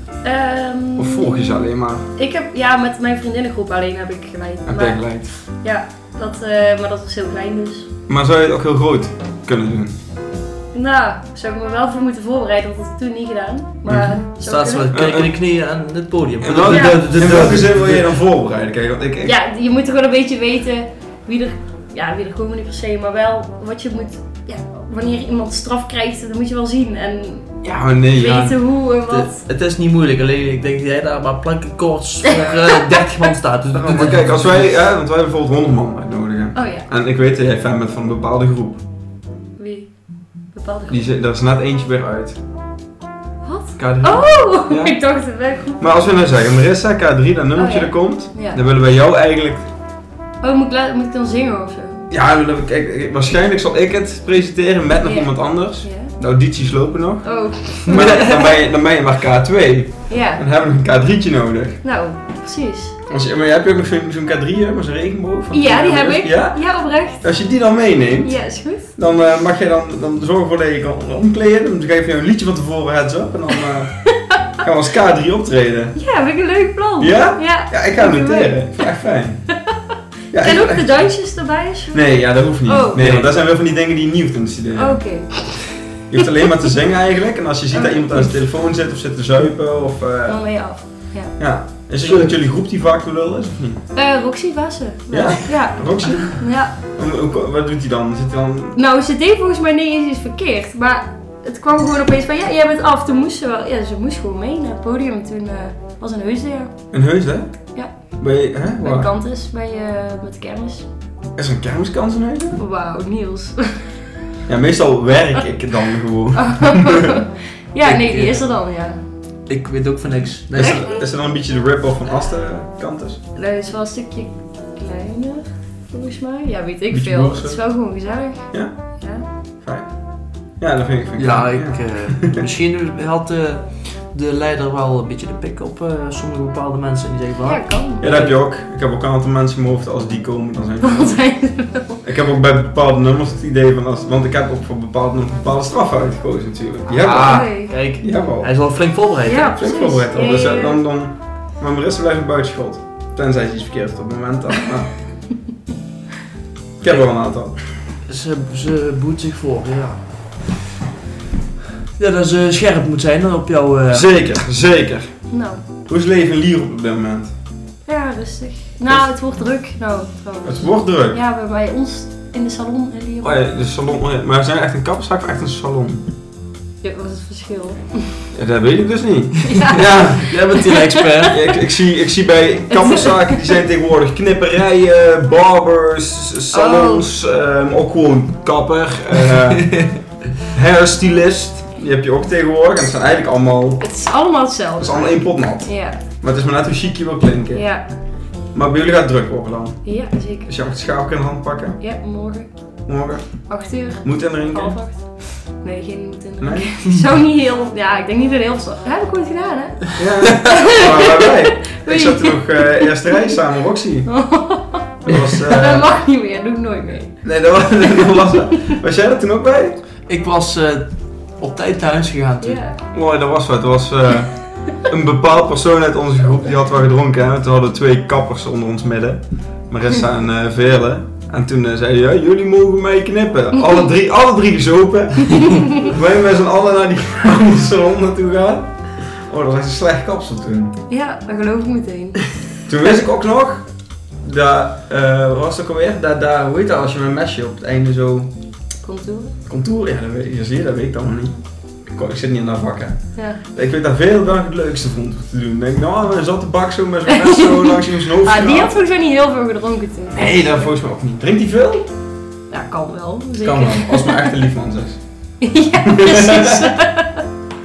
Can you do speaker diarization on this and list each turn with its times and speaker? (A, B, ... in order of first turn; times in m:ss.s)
0:00.2-0:07.9 A
0:01.0-0:02.0 B
0:04.7-0:05.3 B
0:08.1-0:10.0 B
0:10.7-0:14.9 A
0:13.9-0:14.2 B
0:14.4-0:18.1 C
0:14.9-0:15.3 B
0:16.4-0:19.4 B
0:16.7-0:17.1 A
0:19.2-0:29.4 A
0:27.6-0:28.6 B
0:29.1-0:34.8 C
0:33.7-0:38.8 B
0:36.6-0:36.8 A
0:39.6-0:41.1 A
0:40.9-0:42.4 B
0:43.4-0:46.0 A
0:43.8-0:45.0 B
0:45.8-0:49.7 B
0:47.6-0:48.6 A
0:50.4-0:52.0 A
0:52.1-1:01.8 B
0:55.0-0:56.1 A
0:57.2-0:58.6 A
0:57.9-0:58.3 C
1:00.1-1:00.4 A
1:01.8-1:03.0 A
1:03.1-1:06.6 B
1:05.5-1:07.3 A
1:07.2-1:08.4 B
1:08.2-1:08.9 A
1:09.0-1:14.0 B
1:14.6-1:16.0 B
1:16.0-1:18.8 A
1:17.0-1:19.5 B
1:20.3-1:21.0 B
1:20.4-1:23.1 A
1:21.9-1:25.0 B
1:23.0-1:23.4 C
1:24.8-1:25.7 A
1:26.1-1:30.4 B
1:27.7-1:28.3 A
1:30.3-1:31.4 A
1:31.4-1:33.8 B
1:32.0-1:32.3 C
1:34.0-1:36.8 A
1:35.1-1:38.8 B
1:38.8-1:46.8 A
1:46.9-1:47.5 B
1:47.7-1:48.1 A
1:48.1-1:49.1 B
1:48.8-1:50.9 A
1:51.4-1:52.6 B
1:52.6-1:53.9 A
1:54.5-1:57.1 B
1:56.3-1:59.0 A
1:57.8-1:58.6 C
1:59.5-2:00.8 C
2:00.5-2:03.2 B
2:00.6-2:01.0 A
2:03.4-2:09.2 A
2:06.9-2:07.6 B
2:09.4-2:12.4 B
2:11.2-2:18.4 C
2:17.4-2:18.0 A
2:18.0-2:21.2 B
2:20.8-2:22.0 A
2:22.0-2:28.5 B
2:26.9-2:29.6 C
2:27.2-2:27.7 A
2:29.3-2:30.8 A
2:29.6-2:34.9 B
2:36.8-2:37.6 B
2:38.0-2:40.5 C
2:42.0-2:44.3 C
2:43.9-2:47.3 B
2:45.3-2:45.6 A
2:47.9-2:53.4 A
2:50.4-2:51.2 B
2:53.2-2:56.0 B
2:56.8-2:58.2 A
2:58.3-3:00.4 B
2:59.5-3:00.9 A
3:00.2-3:01.4 C
3:01.3-3:13.9 B
3:02.7-3:03.5 A
3:06.5-3:07.1 A
3:09.6-3:10.0 C
3:13.8-3:16.0 A
3:14.8-3:17.7 B
3:17.5-3:17.8 A
3:18.5-3:21.8 B
3:19.8-3:20.5 A
3:21.8-3:22.5 A
3:22.9-3:24.8 B
3:23.5-3:33.4 A
3:26.4-3:26.8 B
3:30.0-3:34.1 B
3:34.1-3:38.7 A
3:35.0-3:35.9 B
3:37.2-3:39.8 B
3:40.1-3:42.6 C
3:42.4-3:42.8 A
3:42.9-4:00.8 B
3:55.3-3:55.6 A
4:00.9-4:02.4 A
4:02.7-4:03.7 B
4:04.2-4:08.3 B
4:08.8-4:09.4 A
4:09.5-4:18.8 B
4:13.2-4:13.4 A
4:17.1-4:20.6 A
4:20.1-4:21.9 B
4:22.5-4:24.4 A
4:23.4-4:26.7 B
4:25.4-4:27.2 A